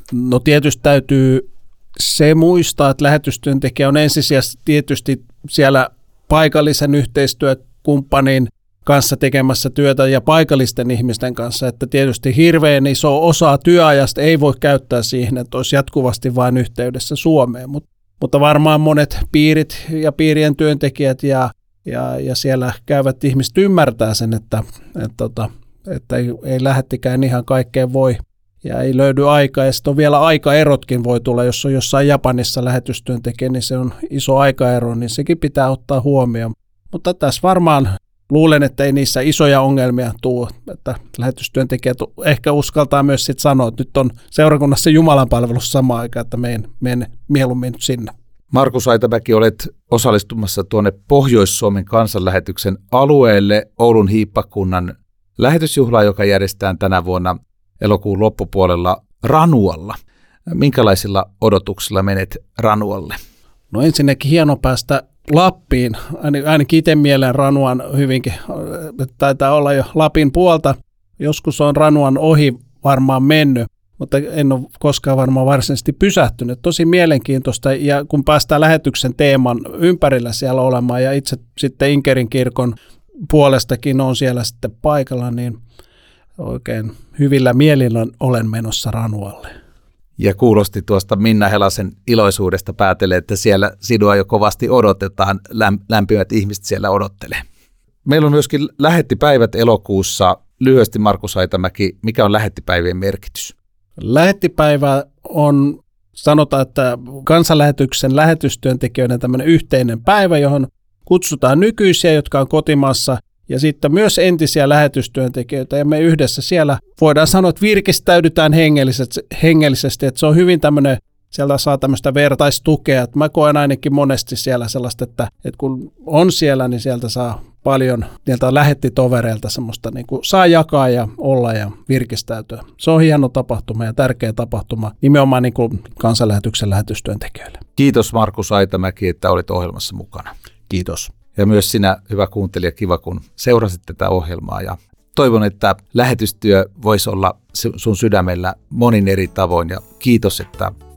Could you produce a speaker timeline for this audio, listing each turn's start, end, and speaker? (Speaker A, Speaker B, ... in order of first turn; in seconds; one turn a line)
Speaker A: 0.1-48.1
Speaker B: 48.5-60.0
Speaker B: 60.5-63.2
Speaker A: 63.7-82.8
Speaker A: 83.3-85.6
Speaker A: 86.4-89.5
Speaker B: 90.2-97.4
Speaker B: 98.1-103.5
Speaker A: 104.0-137.6
Speaker B: 137.8-140.3
Speaker A: 140.7-141.1
Speaker B: 141.4-150.7